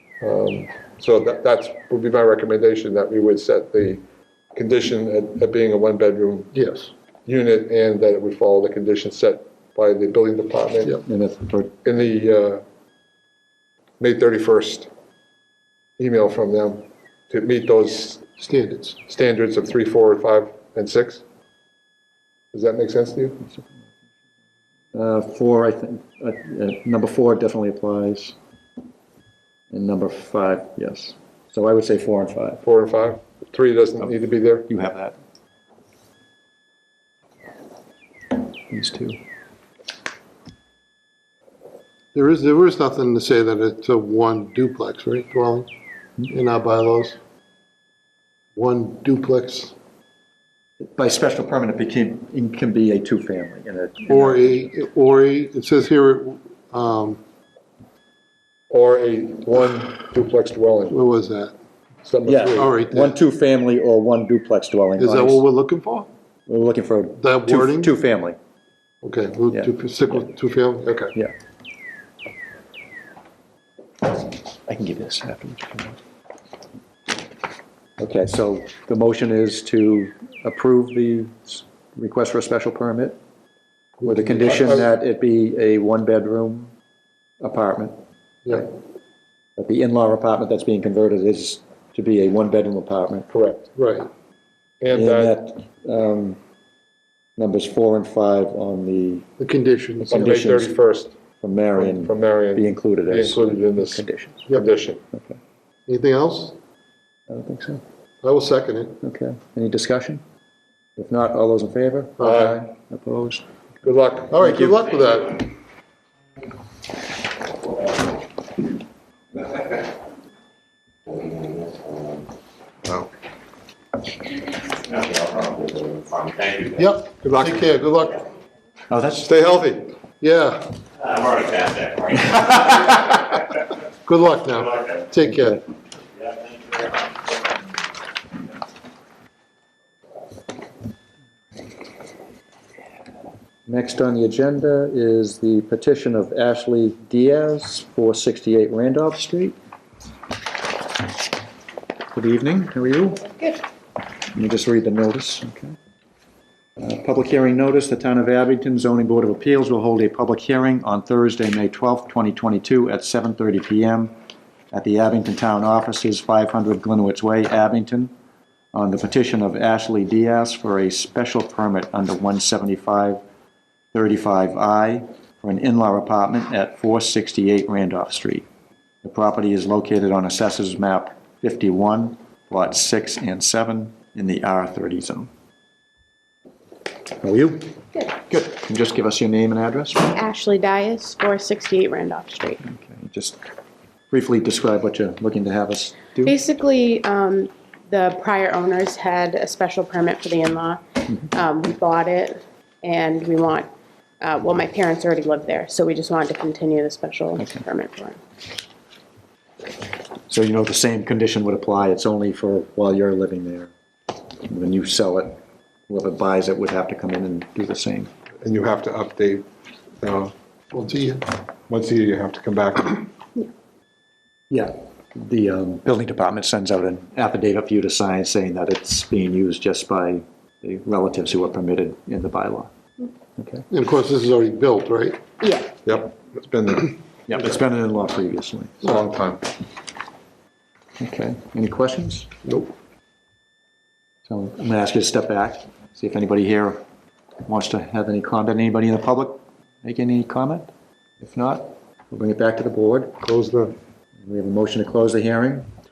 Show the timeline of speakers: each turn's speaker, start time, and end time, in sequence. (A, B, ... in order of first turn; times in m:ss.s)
0:00.2-0:04.0 A
0:04.5-0:06.5 A
0:06.5-0:06.9 B
0:07.2-0:11.0 A
0:11.0-0:11.8 C
0:11.8-0:12.6 A
0:14.0-0:14.9 A
0:16.0-0:18.3 A
0:18.4-0:19.0 B
0:19.0-0:21.2 A
0:22.5-0:23.4 A
0:24.9-0:28.4 C
0:29.7-0:32.6 C
0:32.6-0:34.7 A
0:34.0-0:35.2 C
0:38.7-0:39.2 C
0:42.1-0:45.7 B
0:46.2-0:47.2 B
0:48.5-0:49.7 B
0:50.8-0:54.7 C
0:54.1-0:57.2 B
0:58.7-1:01.0 A
1:00.9-1:01.5 B
1:02.0-1:02.7 A
1:02.2-1:05.4 C
1:02.5-1:03.2 B
1:05.0-1:06.1 B
1:06.5-1:08.4 C
1:07.2-1:07.9 B
1:09.0-1:11.1 B
1:09.5-1:10.3 C
1:14.7-1:16.0 C
1:18.0-1:23.2 C
1:24.0-1:24.8 B
1:24.0-1:26.7 C
1:27.4-1:28.0 C
1:29.6-1:33.3 C
1:33.3-1:33.7 A
1:33.8-1:34.1 B
1:34.8-1:35.4 A
1:34.9-1:36.4 C
1:37.4-1:39.3 C
1:39.4-1:40.2 B
1:40.0-1:40.8 C
1:40.1-1:41.1 A
1:41.4-1:44.5 C
1:41.7-1:45.0 A
1:45.1-1:45.4 C
1:45.9-1:46.6 B
1:47.3-1:47.8 C
1:48.2-1:49.0 B
1:49.0-1:50.2 C
1:51.0-1:53.5 C
1:52.2-1:52.6 A
1:53.8-1:54.4 A
1:54.3-1:55.4 B
1:54.3-1:54.8 C
2:05.2-2:06.7 D
2:06.7-2:08.2 B
2:07.2-2:07.6 A
2:08.9-2:09.3 C
2:09.2-2:09.9 A
2:10.2-2:10.7 B
2:11.1-2:12.6 D
2:14.0-2:15.6 B
2:15.2-2:15.6 C
2:23.6-2:29.6 C
2:32.1-2:33.6 C
2:34.3-2:35.8 C
2:36.8-2:44.1 C
2:44.7-2:48.1 C
2:48.7-2:53.2 C
2:53.9-2:58.4 C
2:59.0-3:05.3 C
3:07.2-3:10.1 C
3:10.1-3:12.6 E
3:12.6-3:13.4 C
3:14.1-3:16.4 C
3:16.2-3:28.2 E
3:27.4-3:27.6 C
3:30.3-3:33.7 C
3:34.4-3:38.1 C
3:38.4-3:39.4 A
3:40.0-3:40.3 A
3:40.7-3:41.3 B
3:41.7-3:43.1 A
3:44.5-3:52.7 C
3:53.4-3:53.6 C
3:53.7-3:55.2 B
3:55.4-3:55.7 E
3:55.8-3:57.0 A
3:57.3-3:59.0 C
3:58.8-3:59.4 A
4:01.0-4:02.3 C
4:04.2-4:06.8 C
4:07.4-4:10.7 C
4:11.2-4:13.2 C
4:13.2-4:13.7 B
4:14.2-4:15.7 C